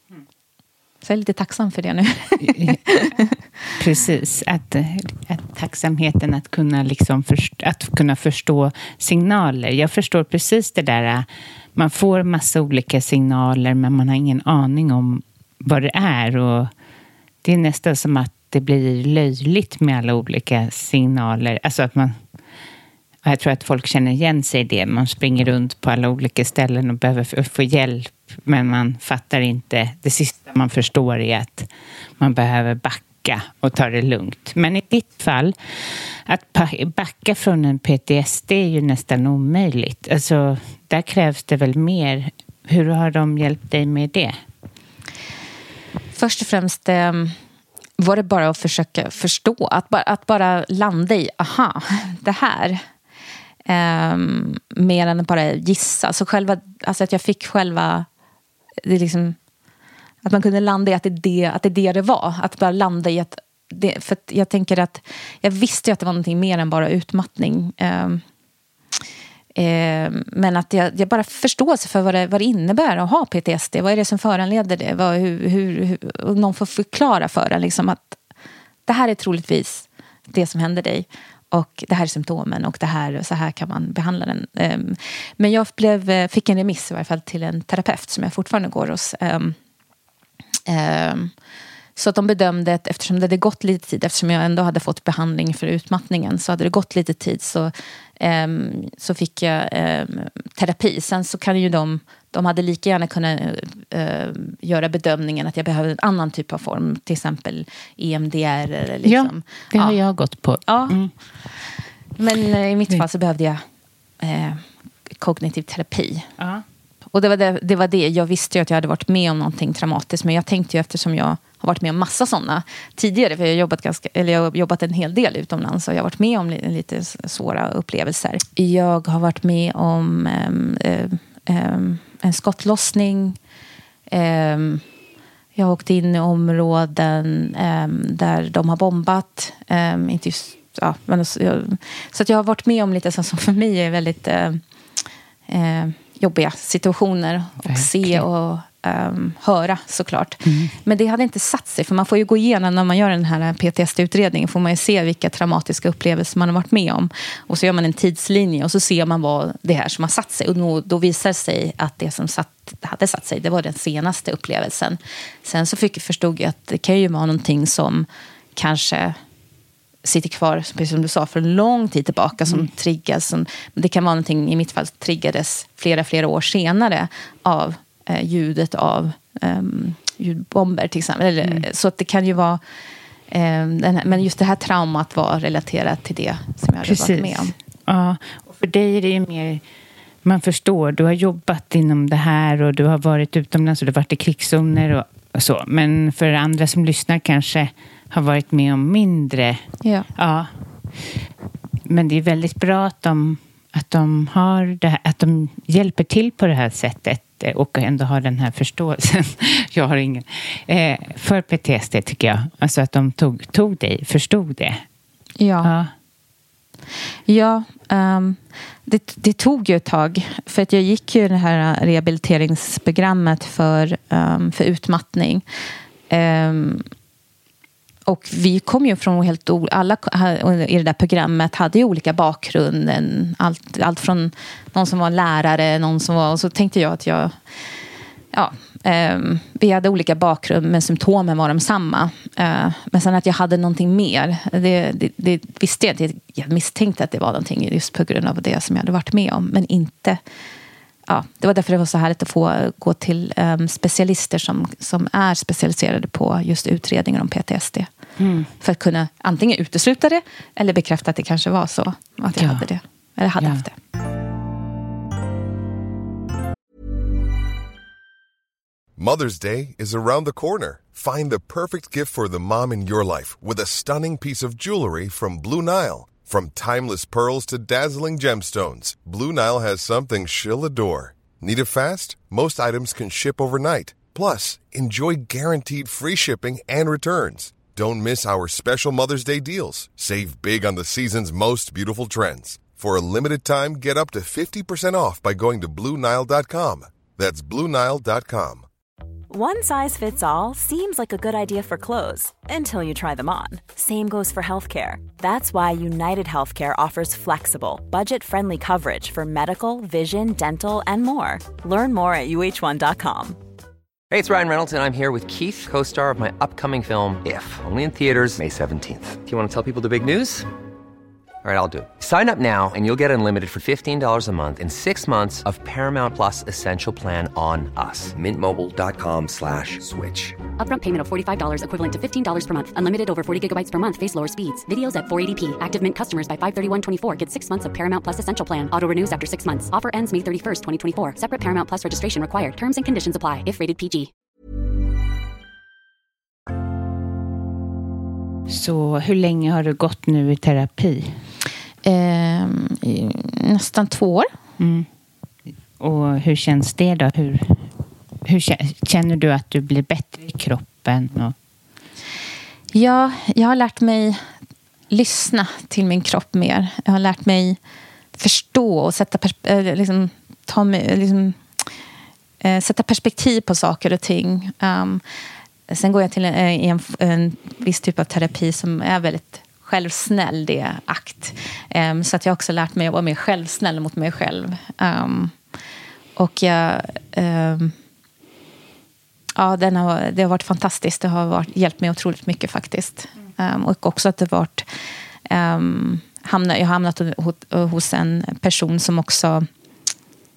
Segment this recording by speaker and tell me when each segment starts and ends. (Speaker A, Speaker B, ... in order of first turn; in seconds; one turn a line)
Speaker A: 1.0-3.3
Speaker B: 2.4-2.8
Speaker B: 3.8-16.7
Speaker B: 17.4-22.2
Speaker B: 23.2-31.7
Speaker B: 32.2-35.5
Speaker B: 36.3-44.4
Speaker A: 46.1-47.3
Speaker A: 48.0-52.8
Speaker A: 53.7-58.1
Speaker A: 58.8-59.4
Speaker A: 60.2-68.2
Speaker A: 69.5-78.2
Speaker A: 78.9-89.5
Speaker A: 90.7-91.3
Speaker A: 92.0-110.0
Speaker B: 109.0-111.1
Speaker A: 110.7-111.0
Speaker A: 112.2-113.6
Speaker A: 114.2-116.3
Speaker B: 116.4-116.6
Speaker A: 117.1-133.4
Speaker A: 134.1-134.8
Speaker A: 135.6-144.6
Speaker A: 145.5-169.2
Speaker B: 147.6-148.2
Speaker B: 150.4-150.8
Speaker A: 170.0-182.6
Speaker A: 183.3-187.5
Speaker B: 186.8-189.6
Speaker B: 190.2-199.6
Speaker A: 199.8-200.1
Speaker B: 200.1-200.5
Speaker B: 201.8-214.8
Speaker A: 215.4-215.7
Speaker B: 215.6-215.9
Speaker A: 217.3-225.4
Speaker A: 226.1-226.8
Speaker A: 228.1-237.3
Speaker A: 238.3-250.2
Speaker A: 251.1-257.9
Speaker B: 258.2-258.5
Speaker A: 258.6-263.7
Speaker B: 262.4-262.6
Speaker B: 263.4-263.6
Speaker C: 269.0-298.6
Speaker D: 299.3-313.4
Speaker E: 314.1-320.5
Speaker E: 321.4-330.4
Speaker F: 330.6-344.1
Speaker B: 348.5-351.2
Speaker A: 351.8-354.3
Speaker B: 354.6-354.9
Speaker B: 355.8-357.7
Speaker B: 358.2-361.3
Speaker A: 362.7-364.2
Speaker A: 364.9-367.6
Speaker A: 368.2-371.4
Speaker A: 372.4-375.0
Speaker A: 375.7-385.4
Speaker A: 386.1-387.7
Speaker A: 389.4-394.6
Speaker A: 395.3-399.4